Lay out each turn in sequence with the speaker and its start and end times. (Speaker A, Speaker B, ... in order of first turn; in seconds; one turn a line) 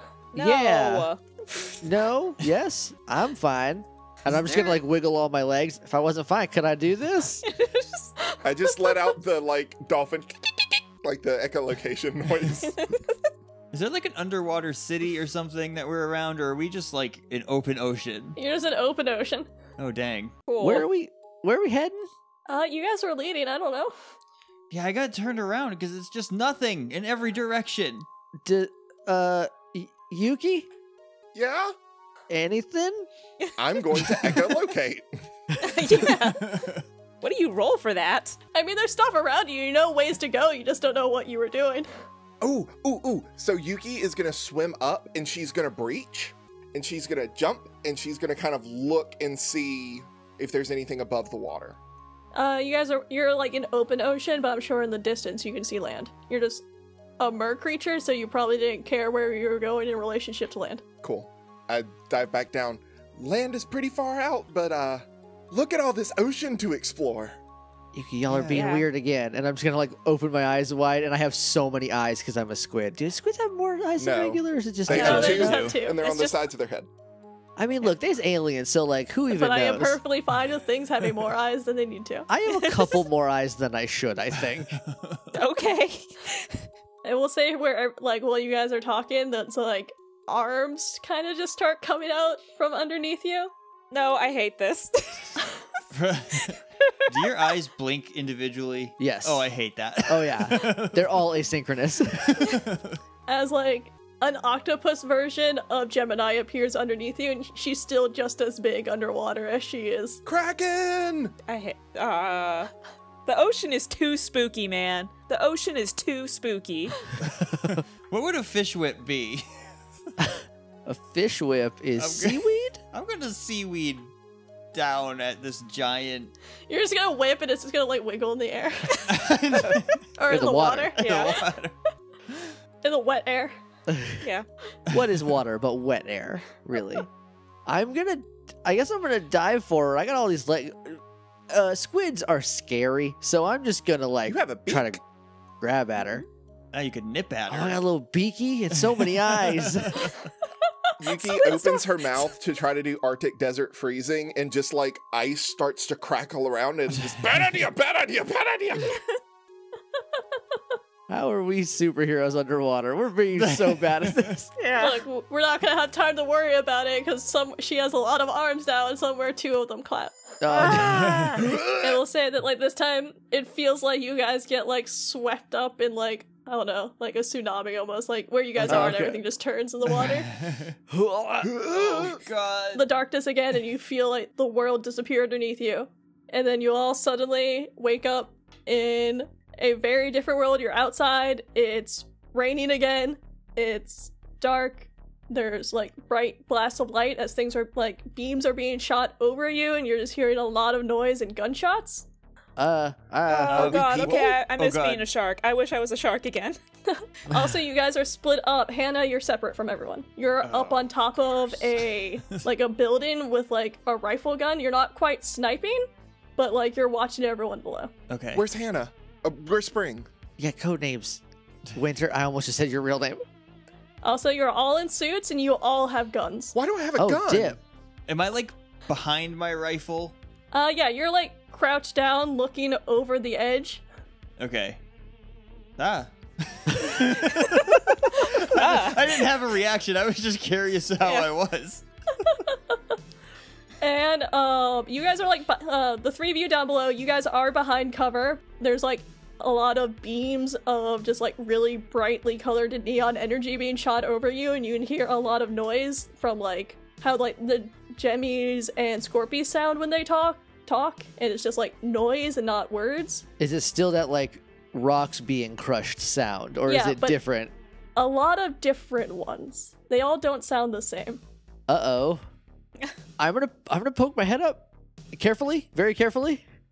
Speaker A: 0.3-1.8
Speaker B: 0.3-1.1
Speaker B: 1.8-7.5
Speaker A: 7.4-8.3
Speaker C: 8.4-12.9
Speaker A: 12.7-13.1
Speaker D: 13.7-18.4
Speaker E: 18.4-19.5
Speaker D: 19.8-20.4
Speaker A: 20.5-20.9
Speaker B: 20.6-22.1
Speaker E: 22.5-23.9
Speaker D: 24.7-28.1
Speaker B: 28.4-30.7
Speaker C: 31.4-31.7
Speaker B: 32.3-33.1
Speaker C: 33.6-35.1
Speaker A: 35.6-36.6
Speaker D: 36.4-36.8
Speaker A: 37.2-38.4
Speaker E: 38.5-41.9
Speaker C: 42.4-51.8
Speaker E: 52.3-56.6
Speaker E: 57.2-60.8
Speaker C: 61.0-67.4
Speaker B: 67.9-75.7
Speaker D: 68.3-68.7
Speaker A: 68.5-68.9
Speaker C: 74.0-76.9
Speaker D: 74.9-75.8
Speaker E: 74.9-76.2
Speaker A: 75.9-76.5
Speaker B: 77.6-80.0
Speaker E: 79.3-82.3
Speaker B: 82.3-84.8
Speaker A: 82.5-83.0
Speaker D: 84.8-85.2
Speaker A: 85.3-86.6
Speaker E: 87.0-93.5
Speaker A: 93.9-95.4
Speaker D: 95.9-101.3
Speaker B: 99.0-99.5
Speaker B: 100.1-102.6
Speaker D: 102.2-103.0
Speaker E: 103.3-110.2
Speaker C: 110.2-111.3
Speaker A: 111.5-112.7
Speaker A: 113.3-117.0
Speaker D: 117.2-119.5
Speaker B: 120.2-122.8
Speaker D: 122.0-124.1
Speaker D: 124.7-126.3
Speaker E: 126.7-129.3
Speaker D: 129.1-130.1
Speaker E: 130.2-131.2
Speaker B: 130.3-130.9
Speaker D: 131.0-131.7
Speaker A: 131.0-131.4
Speaker E: 132.8-133.6
Speaker B: 133.9-134.2
Speaker B: 134.9-137.1
Speaker B: 137.7-145.0
Speaker C: 144.3-145.0
Speaker B: 145.6-146.2
Speaker D: 146.7-147.8
Speaker B: 147.5-150.0
Speaker D: 148.8-150.1
Speaker E: 150.8-152.0
Speaker C: 151.0-159.0
Speaker B: 161.1-164.5
Speaker D: 163.4-164.4
Speaker A: 164.6-165.0
Speaker E: 164.8-170.3
Speaker B: 170.4-171.4
Speaker A: 170.5-171.4
Speaker D: 170.8-171.4
Speaker C: 171.4-172.0
Speaker E: 171.8-180.3
Speaker B: 178.6-179.2
Speaker D: 179.9-180.8
Speaker B: 180.9-181.7
Speaker C: 181.4-182.2
Speaker D: 181.7-182.8
Speaker E: 182.7-202.1
Speaker B: 202.6-204.2
Speaker A: 203.3-206.6
Speaker D: 203.5-205.1
Speaker E: 206.9-217.9
Speaker D: 210.4-210.9
Speaker D: 218.1-218.4
Speaker C: 218.3-220.1
Speaker B: 220.4-221.2
Speaker B: 221.8-223.2
Speaker E: 224.0-226.5
Speaker C: 226.5-227.6
Speaker B: 227.0-227.6
Speaker D: 228.1-230.2
Speaker E: 230.5-233.8
Speaker D: 234.4-234.8
Speaker D: 235.8-241.8
Speaker A: 238.3-239.0
Speaker A: 241.0-241.3
Speaker E: 242.3-242.8
Speaker E: 243.8-263.3
Speaker B: 263.4-267.5
Speaker E: 266.7-267.2
Speaker E: 268.0-271.2
Speaker B: 271.7-272.2
Speaker B: 273.2-276.4